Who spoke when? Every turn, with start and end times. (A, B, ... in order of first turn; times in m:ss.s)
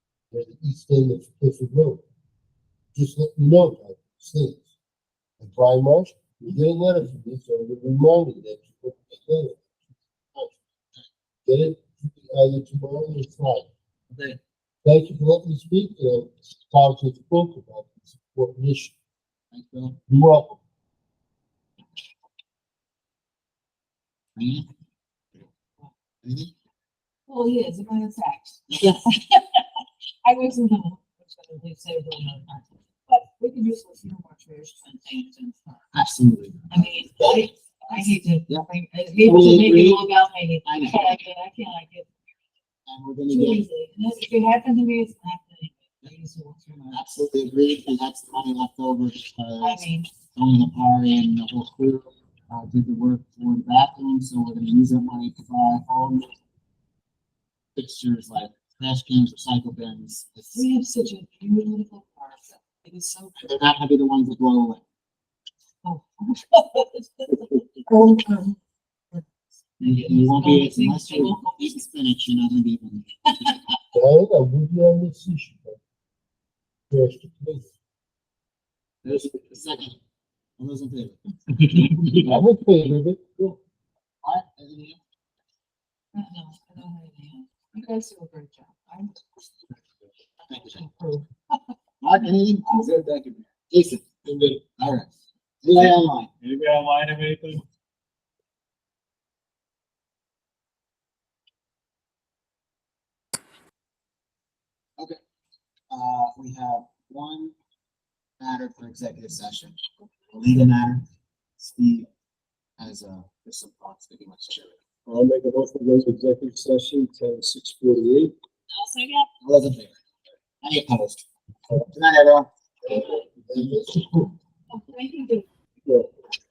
0:00.3-0:02.0 A
0:02.9-0:04.6 A
0:05.4-0:09.6 A
0:10.3-0:10.6 A
0:11.4-0:13.7 A
0:14.1-0:14.4 B
0:14.8-0:19.0 A
0:19.5-0:20.0 B
0:20.1-0:20.6 A
0:24.4-0:24.7 B
0:26.2-0:26.5 B
0:27.3-0:29.6 C
0:28.7-0:29.0 B
0:30.2-0:35.8 C
0:35.9-0:38.7 B
0:36.7-0:42.1 C
0:39.2-0:40.1 B
0:40.6-0:41.2 B
0:42.9-0:43.6 B
0:43.3-0:47.0 C
0:46.9-0:56.3 B
0:49.6-0:50.1 C
0:57.7-1:00.6 B
1:00.5-1:03.6 C
1:03.4-1:04.8 B
1:05.8-1:08.6 C
1:09.8-1:11.8 C
1:09.8-1:13.2 B
1:13.9-1:15.8 A
1:16.9-1:17.7 A
1:19.0-1:20.0 B
1:20.6-1:22.4 B
1:22.1-1:23.6 A
1:24.2-1:25.0 B
1:26.1-1:29.2 C
1:30.5-1:30.8 B
1:30.6-1:31.3 C
1:32.0-1:33.1 B
1:32.8-1:33.4 D
1:33.7-1:34.2 B
1:34.3-1:34.6 D
1:34.8-1:35.1 B
1:35.6-1:36.3 B
1:36.4-1:37.6 D
1:45.9-1:47.5 B
1:48.4-1:49.8 B
1:50.3-1:51.0 B
1:51.6-1:52.1 B
1:52.8-1:54.8 B
1:55.1-1:58.3 D
1:58.7-1:59.3 C
1:59.4-2:00.0 B
2:00.6-2:02.5 B
2:02.8-2:04.3 A
2:04.7-2:05.4 C